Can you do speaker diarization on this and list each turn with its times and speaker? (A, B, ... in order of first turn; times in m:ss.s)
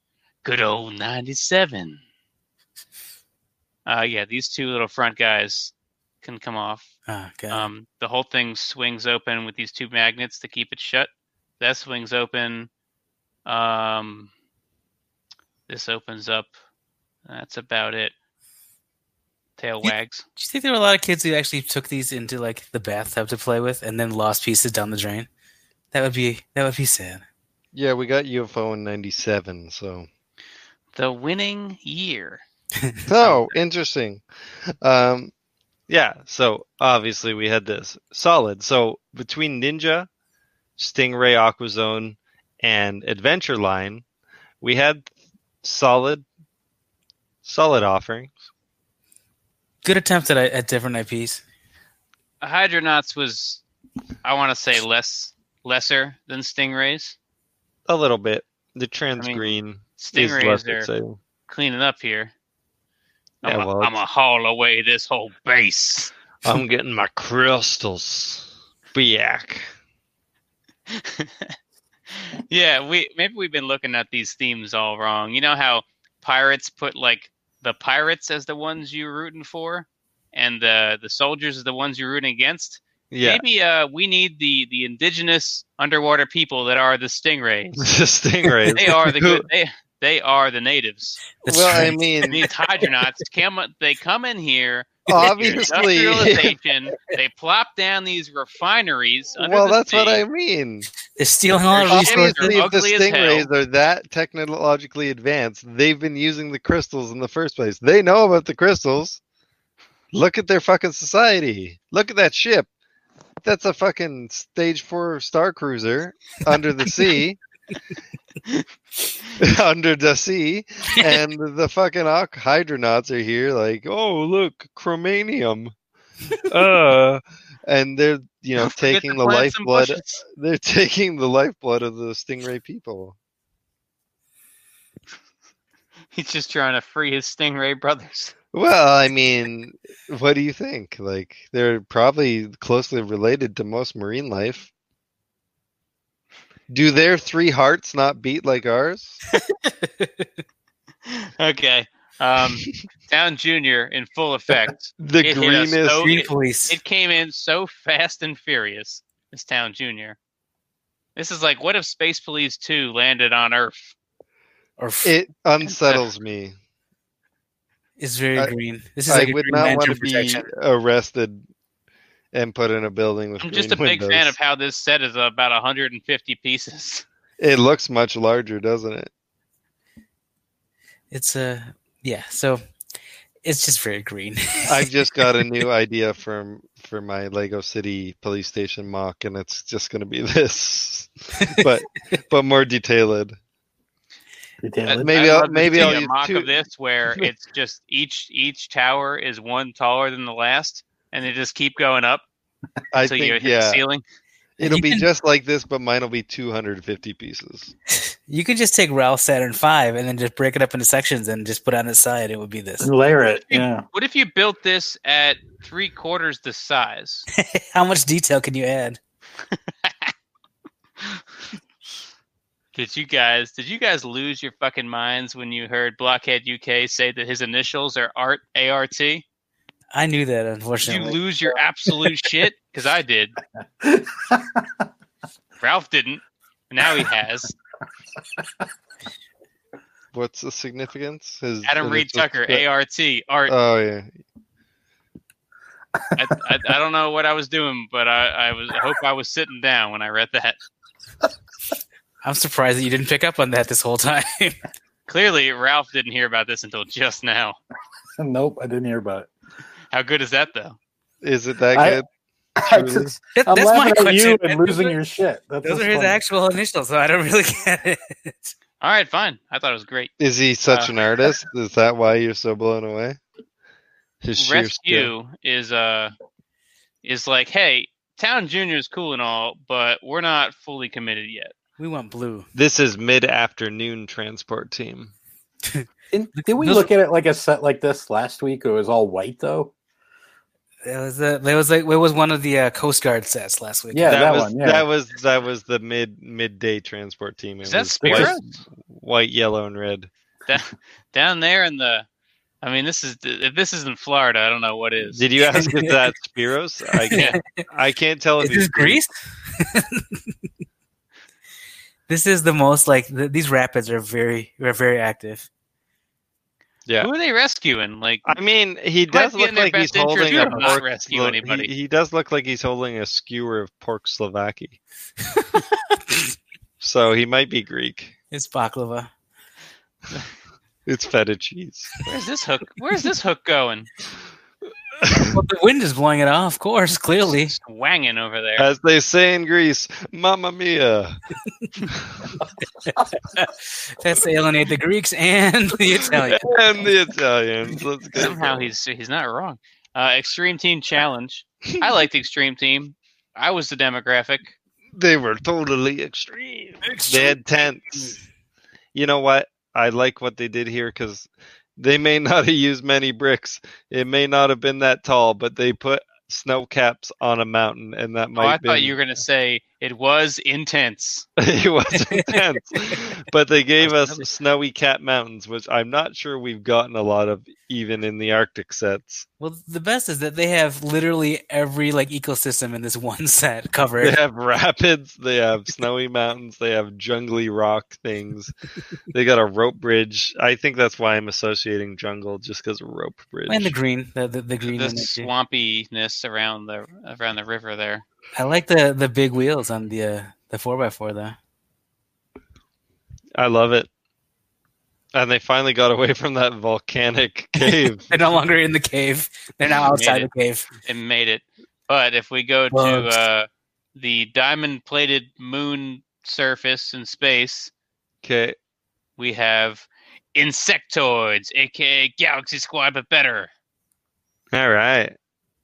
0:00.4-0:02.0 A
0:03.9-0:06.9 A
0:07.1-0:07.7 B
0:07.5-0:11.1 A
0:11.6-0:12.7 A
0:13.5-0:14.3 A
0:15.7-0:16.5 A
0:17.3-0:18.1 A
0:19.6-0:20.2 A
0:19.8-0:25.3 B
0:25.9-0:27.2 B
0:27.7-0:30.1 C
0:30.9-0:32.4 A
0:33.1-0:34.2 C
0:33.2-0:33.5 A
0:34.8-0:35.3 C
0:35.9-0:40.1 C
0:40.8-0:44.0 C
0:44.6-0:45.1 C
0:45.6-0:46.2 C
0:47.4-0:48.4 C
0:49.8-0:51.4 B
0:52.4-0:53.6 A
0:54.2-0:57.2 A
0:57.9-1:01.2 C
0:59.2-1:00.9 A
1:01.5-1:02.3 A
1:03.4-1:06.1 A
1:03.4-1:04.0 C
1:06.4-1:09.7 C
1:10.9-1:11.5 A
1:12.2-1:27.8 A
1:23.1-1:23.4 C
1:27.8-1:29.5 C
1:28.7-1:31.3 A
1:31.4-1:32.4 B
1:31.5-1:32.4 C
1:32.3-1:40.2 A
1:35.1-1:36.6 C
1:39.4-1:40.9 C
1:41.2-1:42.6 B
1:41.7-1:43.5 A
1:41.9-1:49.2 C
1:50.1-1:52.7 C
1:53.4-1:57.4 C
1:59.4-2:05.7 C
2:06.4-2:13.2 C
2:08.6-2:10.2 A
2:16.1-2:18.3 A
2:18.5-2:24.7 C
2:26.7-2:29.2 C
2:29.7-2:30.3 B
2:31.1-2:40.2 A
2:35.0-2:36.1 C
2:36.0-2:36.8 B
2:41.2-2:43.9 A
2:44.8-2:45.1 B
2:45.0-2:46.6 C
2:45.6-2:46.0 A
2:48.0-2:50.5 B
2:49.1-2:51.4 C
2:52.3-2:54.4 C
2:53.4-2:57.0 A
2:57.4-2:59.1 C
3:01.1-3:02.6 B
3:03.4-3:04.9 B
3:04.7-3:13.4 C
3:14.6-3:15.1 D
3:14.8-3:22.2 A
3:15.0-3:16.5 C
3:22.9-3:23.8 C
3:23.0-3:24.0 A
3:24.6-3:27.7 C
3:24.6-3:25.0 B
3:28.0-3:32.9 B
3:32.8-3:33.8 D
3:33.5-3:37.3 A
3:37.3-3:39.0 B
3:39.5-3:40.1 A
3:42.7-3:49.2 A
3:49.9-3:51.2 B
3:50.9-3:53.4 A
3:53.8-3:54.8 D
3:55.6-3:57.6 A
4:00.1-4:02.6 C
4:01.6-4:03.5 A
4:03.5-4:04.1 C
4:06.0-4:06.3 D
4:06.2-4:10.6 A
4:12.2-4:14.6 B
4:15.1-4:17.6 A
4:18.2-4:19.3 D
4:19.9-4:20.8 A
4:21.2-4:22.1 C
4:21.7-4:22.0 D
4:22.6-4:26.2 D
4:22.6-4:23.2 C
4:23.4-4:25.0 B
4:25.6-4:28.5 B
4:28.8-4:30.1 A
4:30.2-4:33.2 C
4:30.7-4:30.9 A
4:34.2-4:35.1 C
4:34.4-4:36.1 A
4:37.0-4:41.5 A
4:41.8-4:42.5 B
4:42.6-4:45.1 C
4:45.7-4:46.9 B
4:46.1-4:49.7 D
4:50.8-4:54.2 B
4:53.9-4:54.9 D
4:54.1-5:00.1 C
4:57.6-4:58.5 A
4:58.0-4:58.3 D
5:00.5-5:02.1 A
5:02.6-5:05.3 A
5:05.0-5:09.0 C
5:05.6-5:06.0 B
5:07.0-5:07.6 B
5:07.1-5:07.4 A
5:08.4-5:10.3 B
5:12.1-5:15.5 B
5:17.0-5:18.3 A
5:18.3-5:24.8 C
5:19.1-5:21.7 A
5:20.3-5:20.7 B
5:25.3-5:26.2 B
5:26.8-5:28.1 C
5:28.3-5:29.1 B
5:30.9-5:31.9 C
5:32.1-5:33.9 A
5:35.0-5:35.4 C
5:35.1-5:37.6 B
5:37.2-5:38.7 A
5:38.6-5:41.2 C
5:41.9-5:42.4 C
5:42.9-5:46.5 B
5:46.1-5:48.7 C
5:48.2-5:54.5 A
5:55.0-5:58.2 C
5:56.9-5:57.4 B
5:58.9-6:09.0 C
6:08.4-6:11.3 A
6:11.4-6:19.3 C
6:13.8-6:14.2 A
6:19.4-6:24.2 B
6:24.0-6:28.6 C
6:29.1-6:33.7 C
6:33.5-6:35.3 B
6:34.7-6:38.0 A
6:38.4-6:41.4 B
6:43.4-6:43.9 C
6:45.1-6:48.1 C
6:47.7-6:50.7 B
6:49.9-6:50.3 A
6:50.8-6:57.7 A
6:52.7-6:53.2 B
6:58.2-6:58.6 C
6:59.2-7:03.5 A
7:04.5-7:05.2 C